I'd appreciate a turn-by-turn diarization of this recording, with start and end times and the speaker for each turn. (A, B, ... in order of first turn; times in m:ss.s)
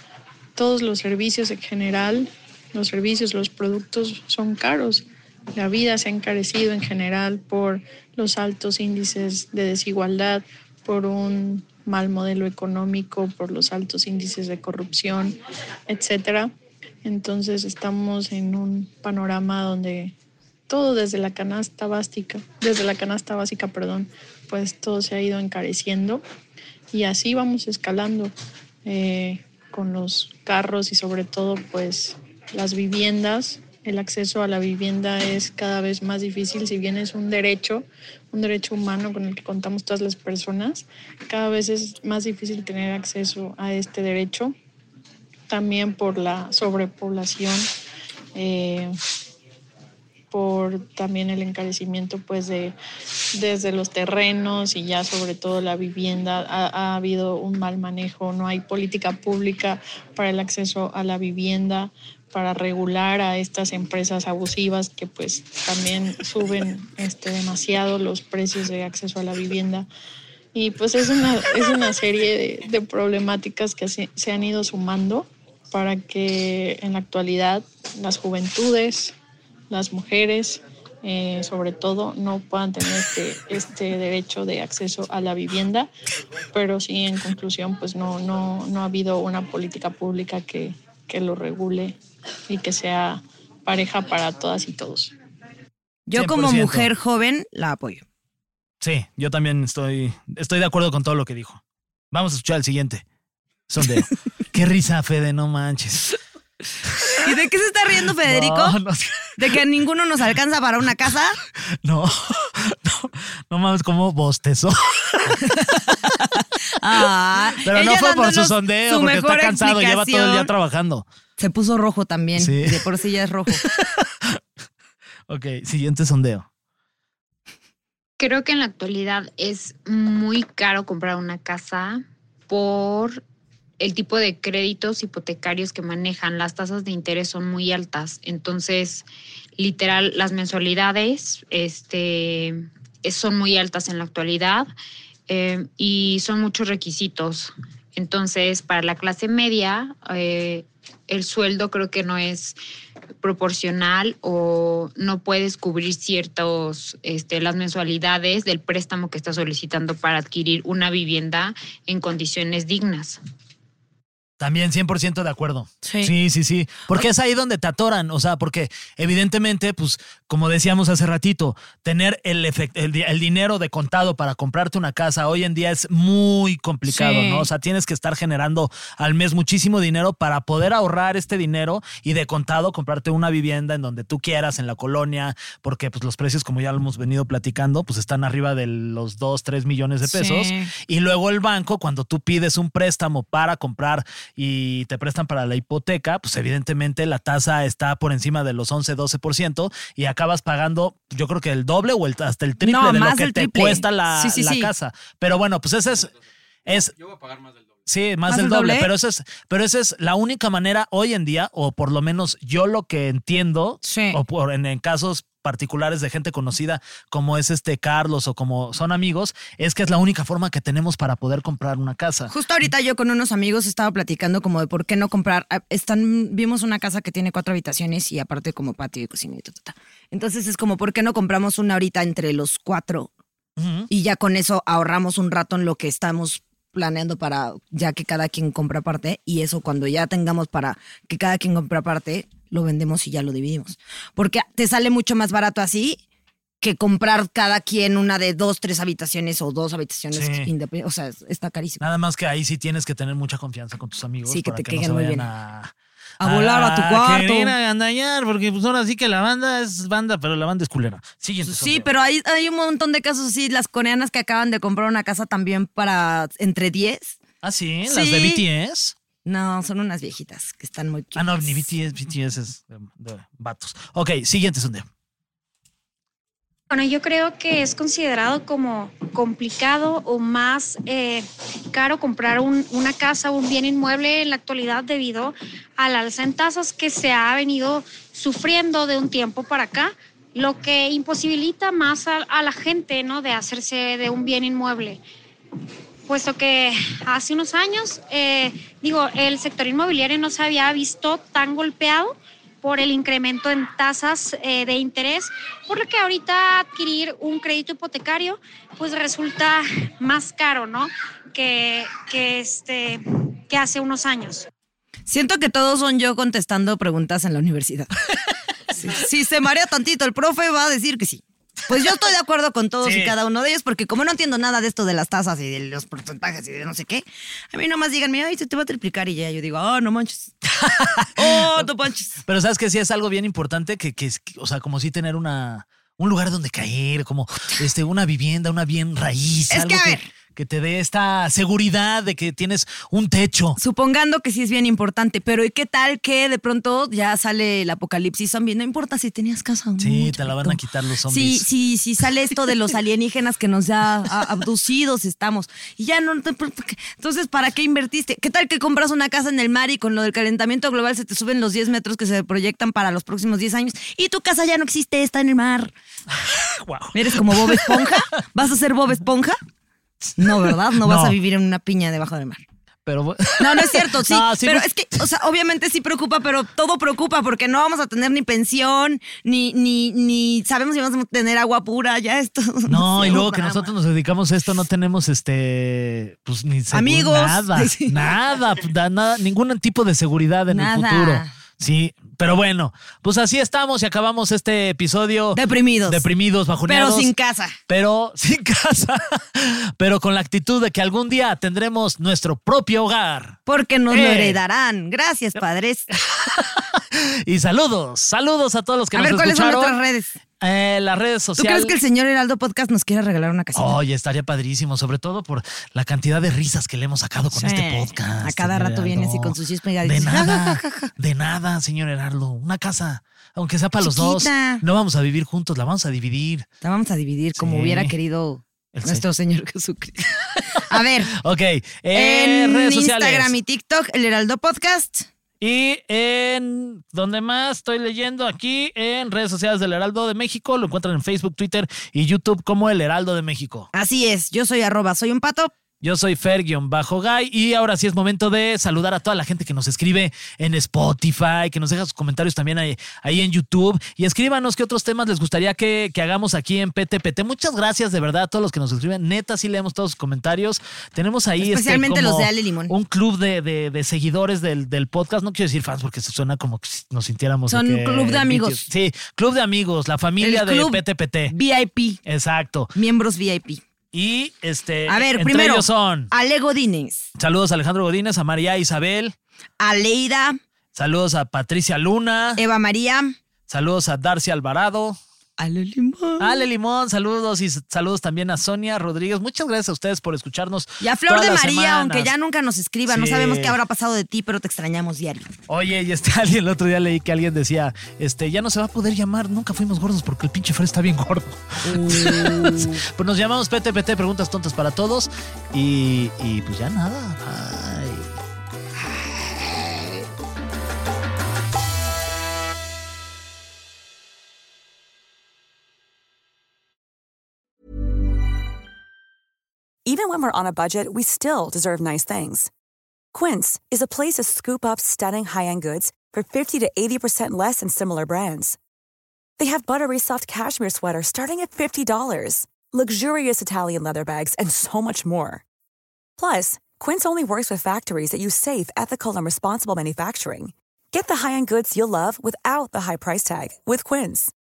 0:00.6-0:16.5 A
0:17.0-0:20.1 A
0:20.7-0:26.2 A
0:26.9-0:28.3 A
0:28.8-0:44.5 A
0:45.5-0:47.7 A
0:48.4-0:49.0 A
0:50.3-0:52.8 A
0:53.3-1:09.9 A
1:10.5-1:19.2 A
1:19.7-1:25.9 A
1:26.5-1:32.0 A
1:32.5-1:35.1 A
1:36.1-1:38.0 B
1:36.1-1:36.9 C
1:38.8-1:41.6 C
1:42.1-1:43.0 C
1:43.7-1:46.1 C
1:47.2-1:48.8 B
1:48.1-1:49.4 C
1:49.4-1:51.4 B
1:51.8-1:55.8 C
1:55.4-2:00.5 B
1:57.6-2:01.0 C
2:01.4-2:03.6 B
2:02.4-2:02.9 C
2:03.5-2:04.4 C
2:05.3-2:06.5 C
2:08.2-2:13.2 D
2:13.8-2:19.1 D
2:19.6-2:24.7 D
2:25.3-2:32.6 D
2:33.2-2:43.2 D
2:44.4-3:26.1 C
2:45.8-2:46.1 B
2:56.9-2:57.5 B
3:10.0-3:10.7 B
3:22.6-3:24.7 B
3:25.8-3:27.9 E
3:26.7-3:26.9 C
3:27.9-3:42.3 C
3:28.3-3:28.9 B
3:33.8-3:34.2 B
3:42.3-3:53.1 B
3:53.6-3:53.9 C
3:53.9-4:06.0 B
4:06.6-4:11.8 B
4:10.1-4:10.5 C
4:11.8-4:21.9 C
4:14.3-4:15.3 B
4:16.2-4:17.5 B
4:21.4-4:27.2 B
4:27.4-4:29.0 C
4:27.9-4:28.4 B
4:29.2-4:31.7 B
4:31.2-4:34.9 C
4:36.7-4:55.0 F
4:56.1-5:14.5 F
5:15.1-5:17.9 B
5:18.7-5:30.4 B
5:22.8-5:23.2 C
5:30.6-5:31.7 C
5:31.2-5:32.2 B
5:32.2-5:43.6 C
5:39.5-5:40.1 B
5:43.6-6:05.7 B
5:49.8-5:51.5 C
6:06.1-6:08.0 C
6:06.9-6:09.4 B
6:10.2-6:12.4 B
6:10.2-6:11.2 C
6:12.9-6:15.0 C
6:13.4-6:23.7 B
6:22.7-6:37.1 C
6:26.7-6:28.0 B
6:30.5-6:31.3 B
6:35.3-6:36.0 B
6:36.7-6:37.6 B
6:37.7-6:43.4 C
6:43.5-6:45.9 B
6:43.9-6:44.4 C
6:45.9-6:49.8 C
6:48.9-6:50.1 B
6:50.4-6:51.8 C
6:51.4-6:53.8 B
6:53.6-7:06.5 C
6:57.3-7:00.9 B
7:03.8-7:04.6 B
7:06.6-7:11.1 B
7:07.4-7:07.9 C
7:08.7-7:09.0 C
7:10.4-7:13.4 C
7:11.9-7:15.1 B
7:15.4-7:23.7 C
7:23.7-7:25.5 B
7:25.8-7:51.3 C
7:41.4-7:42.7 B
7:47.5-7:48.6 B
7:50.2-7:52.0 B
7:52.0-7:52.7 C
7:52.8-7:53.6 B
7:53.9-7:56.1 C
7:54.9-7:57.1 B
7:57.2-7:59.2 C
7:59.6-8:00.4 B
8:00.7-8:02.4 C
8:02.4-8:03.2 B
8:03.5-8:05.0 C
8:05.4-8:06.5 B
8:06.2-8:12.1 C
8:10.8-8:15.3 B
8:12.9-8:13.6 C
8:15.5-8:28.2 C
8:21.6-8:22.8 B
8:39.8-8:42.5 G
8:43.1-8:48.6 G
8:49.4-8:55.4 G
8:56.2-9:04.3 G